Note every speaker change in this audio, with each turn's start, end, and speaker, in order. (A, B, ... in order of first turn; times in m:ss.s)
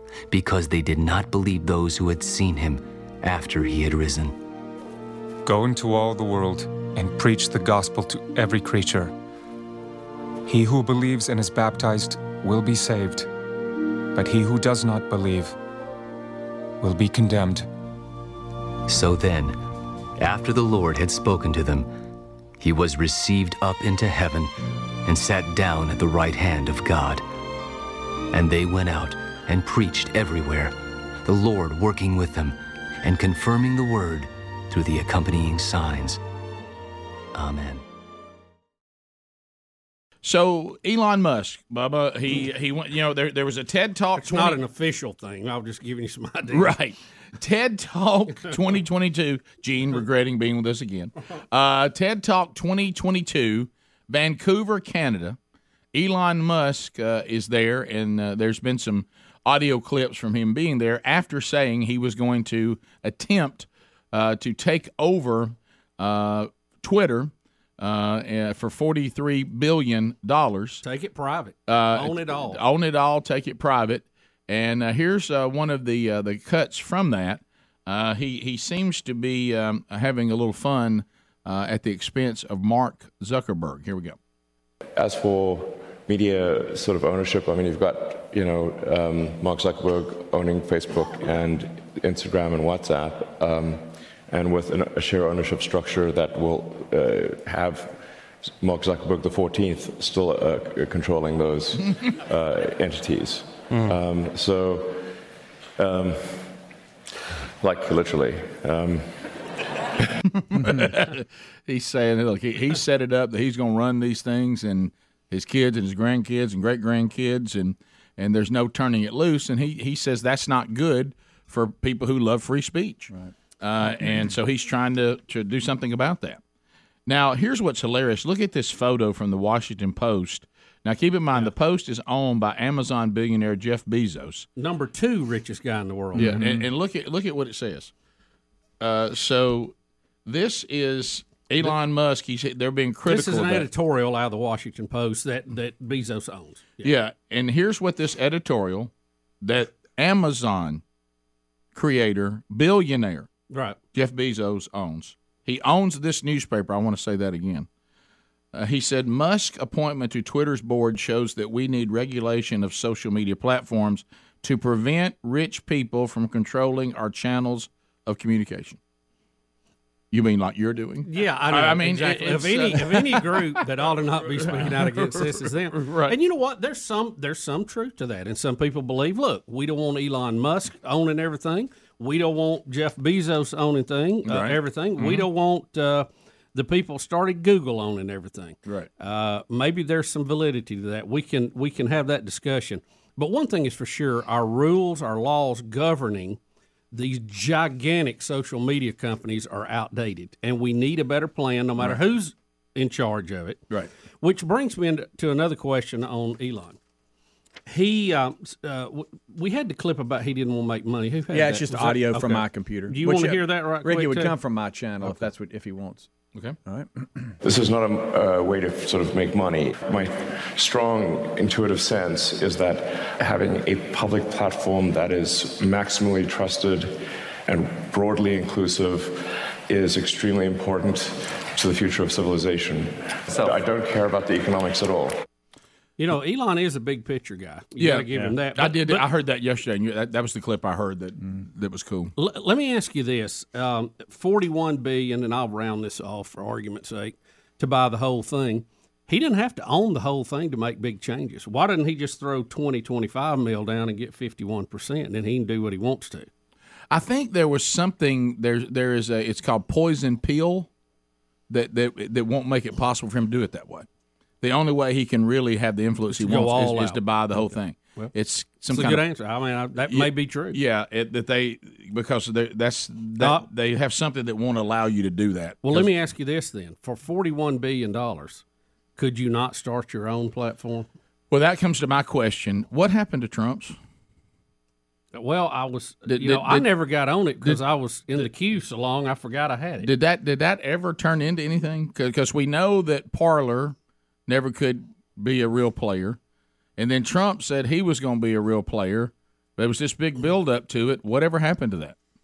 0:00.3-0:04.4 A
0:05.5-0:09.1 B
0:10.5-0:13.3 B
0:14.2-0:15.6 B
0:16.8-0:17.7 B
0:18.9-0:19.6 A
0:20.2-0:21.9 A
0:22.6-0:24.5 A
0:25.0-0:27.2 A
0:28.3-0:36.2 A
0:37.3-0:37.8 A
0:40.2-0:44.6 C
0:44.2-0:46.7 D
0:46.5-0:55.4 C
0:55.9-1:10.8 C
1:10.8-1:12.6 D
1:11.7-1:24.2 C
1:25.0-1:38.0 E
1:38.6-1:45.1 E
1:45.8-1:46.6 E
1:47.6-1:49.1 E
1:50.5-2:06.4 C
2:07.1-2:14.5 C
2:14.6-2:16.6 D
2:16.2-2:17.9 C
2:18.8-2:19.8 C
2:20.3-2:23.7 C
2:23.1-2:26.9 D
2:26.8-2:30.8 C
2:31.8-2:33.3 C
2:33.5-2:33.8 D
2:33.9-2:37.7 C
2:38.5-2:48.8 C
2:50.1-2:53.6 C
2:51.0-3:16.4 D
2:54.3-2:56.2 C
3:04.3-3:05.3 C
3:16.9-3:23.6 D
3:24.2-3:26.8 D
3:27.7-3:34.4 D
3:31.3-3:36.1 F
3:36.7-3:37.3 F
3:37.4-3:47.0 E
3:47.5-3:55.2 E
3:56.0-3:59.0 D
3:57.8-4:02.1 C
4:02.2-4:16.3 D
4:16.9-4:20.7 C
4:21.5-4:23.9 C
4:24.4-4:29.0 C
4:26.1-4:28.1 D
4:28.7-4:30.6 D
4:29.9-4:35.9 C
4:33.2-4:33.5 D
4:35.6-4:38.4 D
4:39.0-4:40.9 D
4:41.3-4:43.8 C
4:45.1-4:49.9 D
4:46.1-4:46.7 C
4:49.8-4:53.8 C
4:54.3-4:56.2 C
4:56.8-5:02.0 C